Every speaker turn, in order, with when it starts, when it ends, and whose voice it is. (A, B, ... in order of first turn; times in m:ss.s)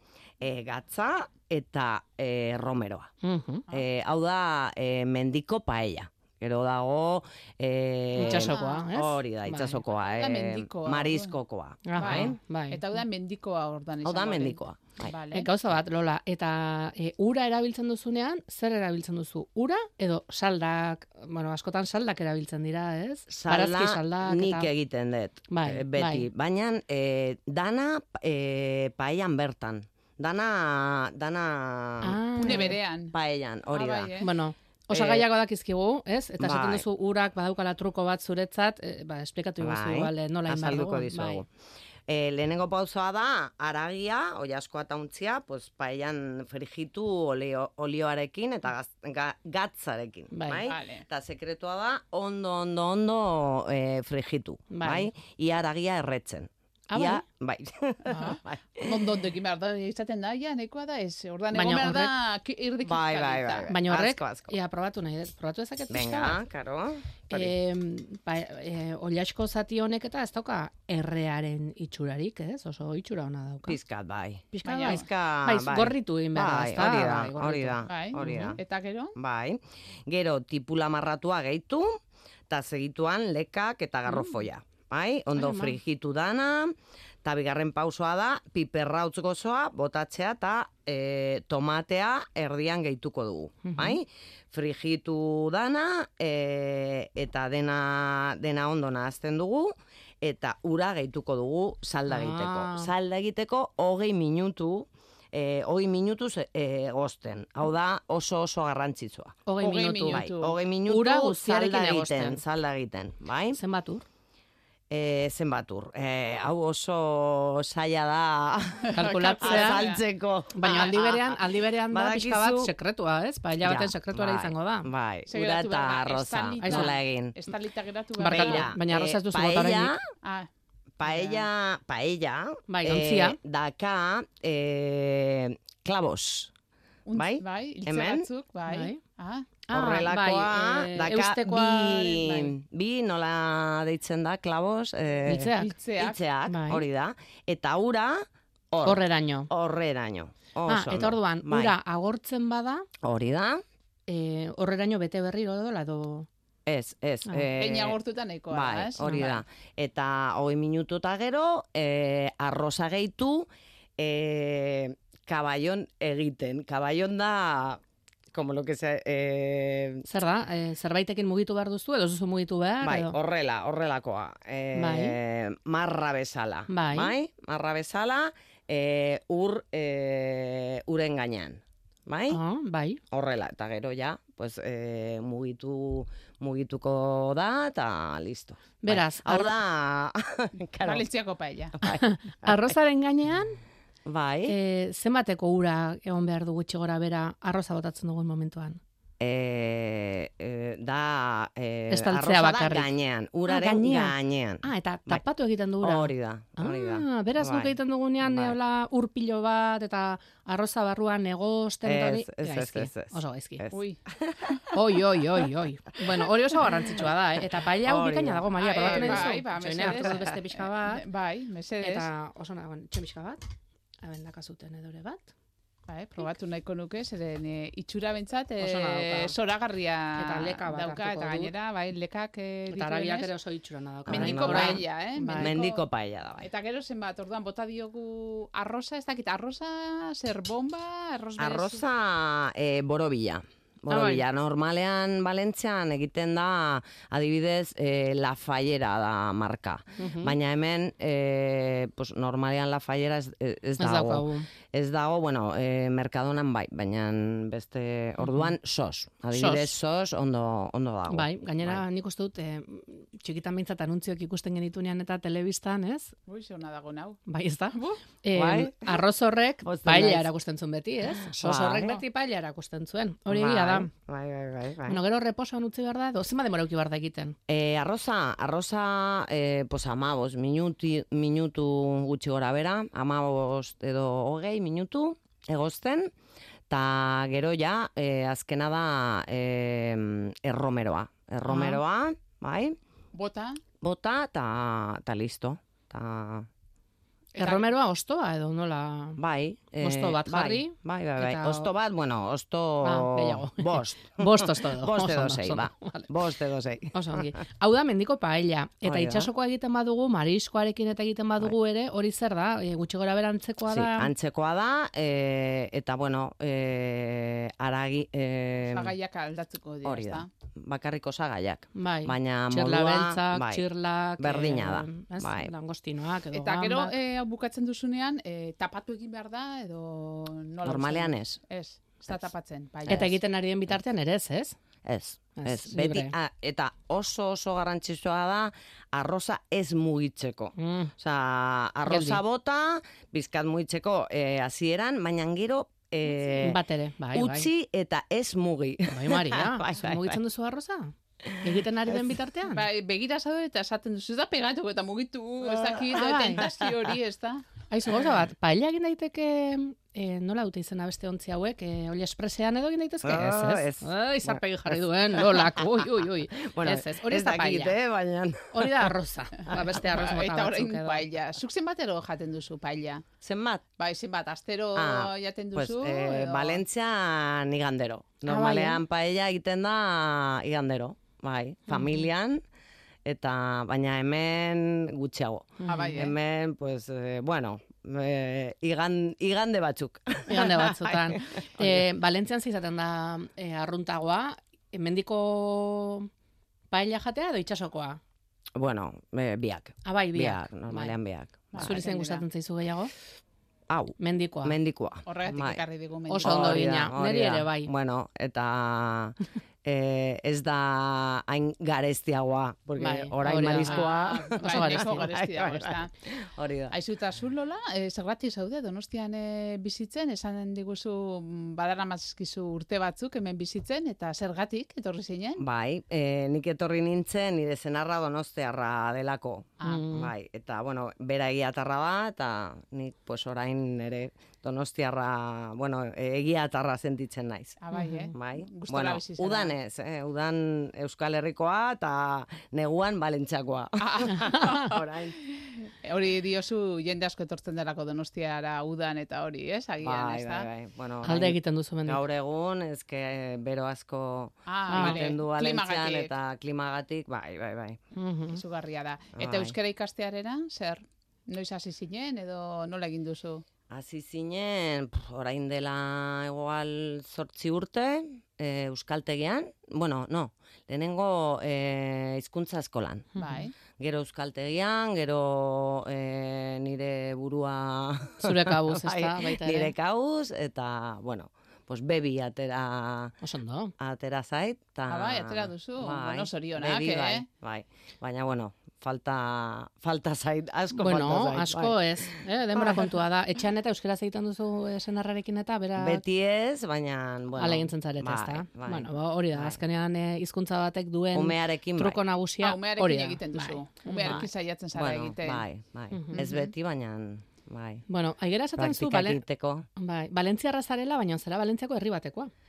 0:00.4-0:03.1 A
0:03.2-0:03.6 B
0:03.7-0:12.3 A
0:08.2-0:09.8 B
0:08.2-0:08.8 C
0:10.2-0:11.3 C
0:11.8-0:12.8 B
0:12.0-0:15.5 C
0:14.0-0:15.1 A
0:15.3-0:24.7 B
0:23.3-0:34.1 A
0:25.5-0:26.3 B
0:32.0-0:32.8 B
0:32.4-0:33.1 C
0:33.7-0:34.3 C
0:34.2-0:41.4 B
0:34.9-0:35.3 A
0:36.4-0:36.8 A
0:39.6-0:41.5 A
0:42.1-0:59.2 A
0:50.3-0:50.6 B
0:50.6-0:51.0 C
0:54.7-0:55.1 B
0:56.9-0:57.2 B
0:58.1-1:03.7 C
1:01.5-1:02.1 B
1:02.8-1:04.6 A
1:03.7-1:06.4 B
1:05.9-1:07.5 A
1:07.3-1:13.8 B
1:13.7-1:18.6 A
1:14.5-1:18.6 B
1:14.6-1:15.0 C
1:17.8-1:19.2 C
1:19.2-1:49.4 A
1:25.4-1:25.8 B
1:33.6-1:34.0 B
1:42.1-1:42.9 B
1:49.4-1:50.2 B
1:49.6-1:50.6 C
1:50.1-1:53.6 A
1:50.8-1:52.4 B
1:53.5-1:54.0 B
1:54.9-2:02.7 A
1:58.8-2:00.0 C
1:58.9-1:59.9 B
2:00.5-2:04.9 B
2:03.6-2:07.4 A
2:05.3-2:08.7 C
2:06.6-2:06.9 B
2:08.2-2:10.0 B
2:08.2-2:10.0 A
2:10.2-2:10.5 C
2:11.0-2:16.5 A
2:11.0-2:11.4 C
2:12.7-2:13.4 B
2:17.0-2:19.5 C
2:17.1-2:18.3 A
2:18.7-2:19.0 B
2:19.6-2:21.9 B
2:19.7-2:31.7 A
2:21.7-2:22.5 C
2:25.2-2:25.7 B
2:25.6-2:26.2 C
2:26.5-2:26.8 B
2:28.8-2:29.5 B
2:30.7-2:32.9 B
2:33.0-2:33.6 A
2:34.1-2:36.3 B
2:36.6-2:38.0 A
2:37.6-2:39.4 C
2:38.5-2:47.8 A
2:48.3-2:50.0 A
2:50.0-2:53.1 B
2:52.8-3:02.4 A
2:54.7-2:55.2 B
2:56.7-2:57.1 B
3:02.3-3:03.0 B
3:03.1-3:11.0 A
3:08.8-3:09.5 B
3:10.8-3:11.8 C
3:11.8-3:12.7 A
3:11.8-3:13.6 B
3:14.0-3:14.6 A
3:14.5-3:18.8 B
3:19.2-3:25.2 A
3:21.9-3:22.9 B
3:23.5-3:33.6 B
3:25.8-3:28.6 A
3:31.8-3:34.6 A
3:33.7-3:34.0 C
3:34.7-3:41.0 B
3:37.4-3:40.4 A
3:38.6-3:40.3 C
3:40.8-3:42.1 C
3:41.8-3:43.4 B
3:44.0-3:45.3 B
3:45.9-3:53.3 C
3:48.6-3:49.3 B
3:50.2-3:51.5 B
3:52.7-3:55.6 B
3:54.0-3:56.5 A
3:54.1-3:55.8 C
3:56.4-4:01.8 C
4:01.4-4:21.8 A
4:03.9-4:04.2 B
4:10.0-4:10.3 B
4:13.8-4:14.5 B
4:18.2-4:18.5 B
4:19.3-4:19.7 B
4:21.1-4:26.1 B
4:26.3-4:27.2 C
4:27.3-4:33.9 B
4:27.7-4:28.0 C
4:28.3-4:29.0 A
4:29.6-4:30.3 A
4:31.2-4:32.0 A
4:33.3-4:35.0 A
4:34.9-4:37.4 B
4:37.5-4:46.1 A
4:46.7-4:52.8 A
4:51.4-4:51.8 B
4:53.1-4:53.6 C
4:53.8-4:56.5 A
4:57.3-4:59.2 B
4:57.4-4:57.6 C
4:59.2-5:07.3 A
4:59.8-5:01.7 B
5:02.8-5:06.1 B
5:06.9-5:14.1 B
5:08.8-5:09.3 A
5:13.7-5:18.9 A
5:18.7-5:20.3 C
5:19.8-5:23.6 A
5:21.7-5:26.9 B
5:24.2-5:25.5 A
5:26.3-5:33.2 C
5:30.6-5:31.4 A
5:32.9-5:34.6 B
5:34.8-5:46.6 A
5:35.4-5:36.1 B
5:40.6-5:40.9 B
5:41.8-5:42.2 B
5:46.4-5:47.5 B
5:47.1-5:50.2 A
5:48.9-5:52.7 B
5:51.2-5:52.1 A
5:52.5-5:57.5 C
5:55.5-5:55.8 A
5:55.9-5:56.4 B
5:56.4-5:56.7 A
5:57.7-6:07.8 B
6:03.0-6:08.9 A
6:08.5-6:11.0 B
6:09.4-6:13.0 C
6:13.2-6:13.6 A
6:13.8-6:16.6 C
6:14.7-6:22.4 A
6:18.2-6:18.8 B
6:21.7-6:22.0 B
6:23.0-6:31.8 A
6:25.6-6:26.1 B
6:25.7-6:26.1 C
6:30.3-6:36.1 B
6:36.7-6:38.0 B
6:38.6-6:41.8 A
6:39.8-6:41.0 B
6:41.5-6:42.2 C
6:41.6-6:42.9 B
6:43.7-6:45.6 A
6:44.0-6:44.6 B
6:45.0-6:46.6 C
6:46.1-6:47.7 B
6:46.2-6:56.7 A
6:52.8-6:55.1 B
6:53.6-6:55.9 C
6:56.7-7:05.4 C
7:05.4-7:17.6 A
7:09.6-7:09.9 C
7:09.6-7:10.1 B
7:17.6-7:19.5 C
7:17.7-7:18.1 B
7:18.1-7:25.2 A
7:23.8-7:30.5 C
7:29.8-7:37.8 A
7:31.0-7:32.0 B
7:34.5-7:36.1 C
7:34.7-7:35.1 B
7:37.9-7:38.4 B
7:38.3-7:43.4 C
7:39.2-7:39.5 A
7:43.7-7:53.1 A
7:53.2-7:53.5 B
7:53.2-7:53.5 C
7:53.7-8:03.2 A
7:58.2-7:59.7 B
8:03.2-8:03.7 B
8:03.8-8:13.0 A
8:04.9-8:07.2 C
8:10.7-8:16.0 B
8:15.8-8:19.6 A
8:17.4-8:24.3 B
8:21.1-8:22.0 A
8:22.4-8:25.4 C
8:24.0-8:27.8 A
8:25.9-8:26.3 B
8:26.1-8:26.4 C
8:27.9-8:29.2 B
8:28.6-8:29.6 A
8:29.8-8:32.3 B